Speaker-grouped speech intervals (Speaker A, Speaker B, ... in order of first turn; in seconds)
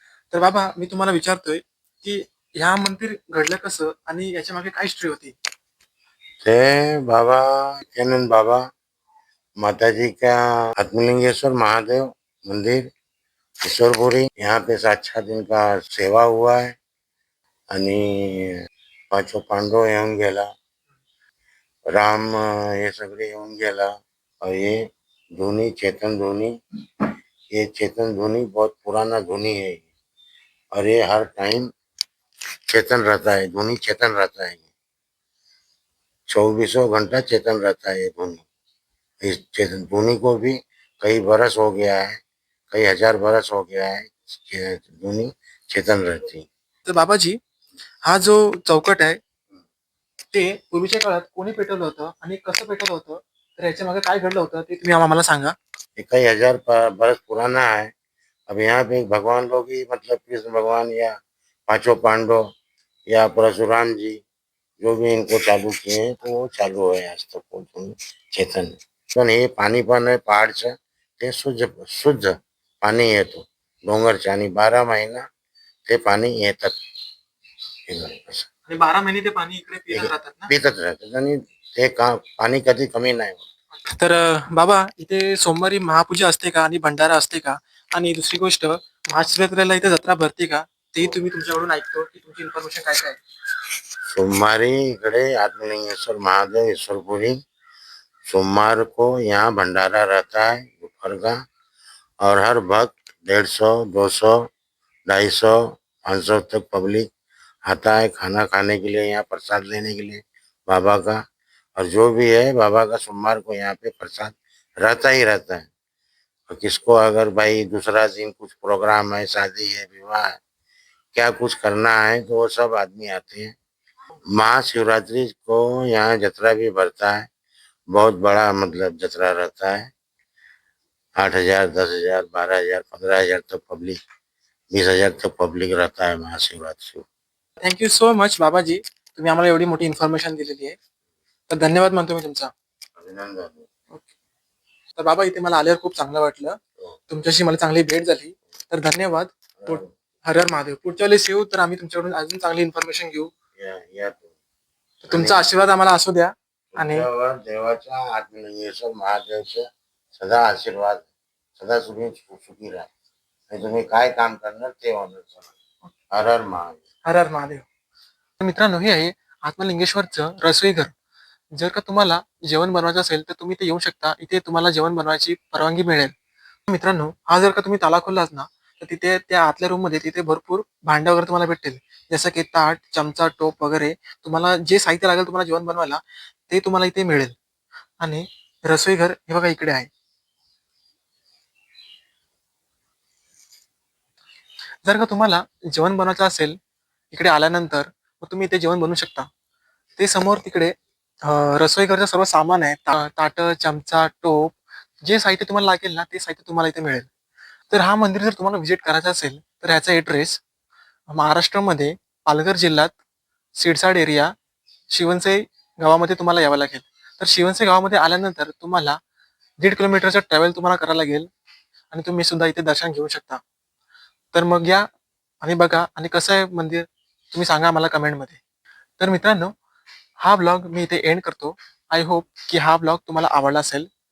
Speaker A: 0.3-5.3, 46.9-47.4, 48.0-49.2, 50.3-55.5, 78.7-80.5, 83.9-93.2, 137.6-140.8, 141.5-142.5, 145.0-153.3, 155.1-157.1, 167.1-167.7, 168.4-170.9, 171.6-176.1, 176.7-187.3, 188.0-189.9, 194.8-196.6, 197.1-199.3, 200.0-207.1, 207.7-210.4, 211.1-212.9, 213.6-214.3, 214.9-219.0, 219.6-221.3, 221.9-223.4, 224.3-224.9, 225.4-228.4, 229.0-229.5, 230.2-233.9
Speaker B: 6.4-8.6, 9.6-12.9, 13.6-16.8, 17.7-18.6, 19.1-20.5, 21.9-24.8, 25.4-26.5, 27.5-29.9, 30.7-31.7, 32.7-34.7, 36.3-38.5, 39.2-42.2, 42.7-46.5, 56.0-57.9, 58.5-61.1, 61.7-62.4, 63.1-64.2, 64.8-75.2, 75.9-76.8, 77.9-78.5, 79.9-83.5, 94.1-97.4, 98.3-101.4, 102.2-104.5, 105.1-107.1, 107.7-111.2, 111.8-115.7, 116.5-120.4, 121.1-123.5, 124.3-127.3, 127.9-129.9, 131.2-134.0, 134.7-137.1, 143.0-143.7, 149.6-149.9, 153.6-154.3, 155.1-155.4, 156.7-162.9, 163.5-165.5, 166.1-166.8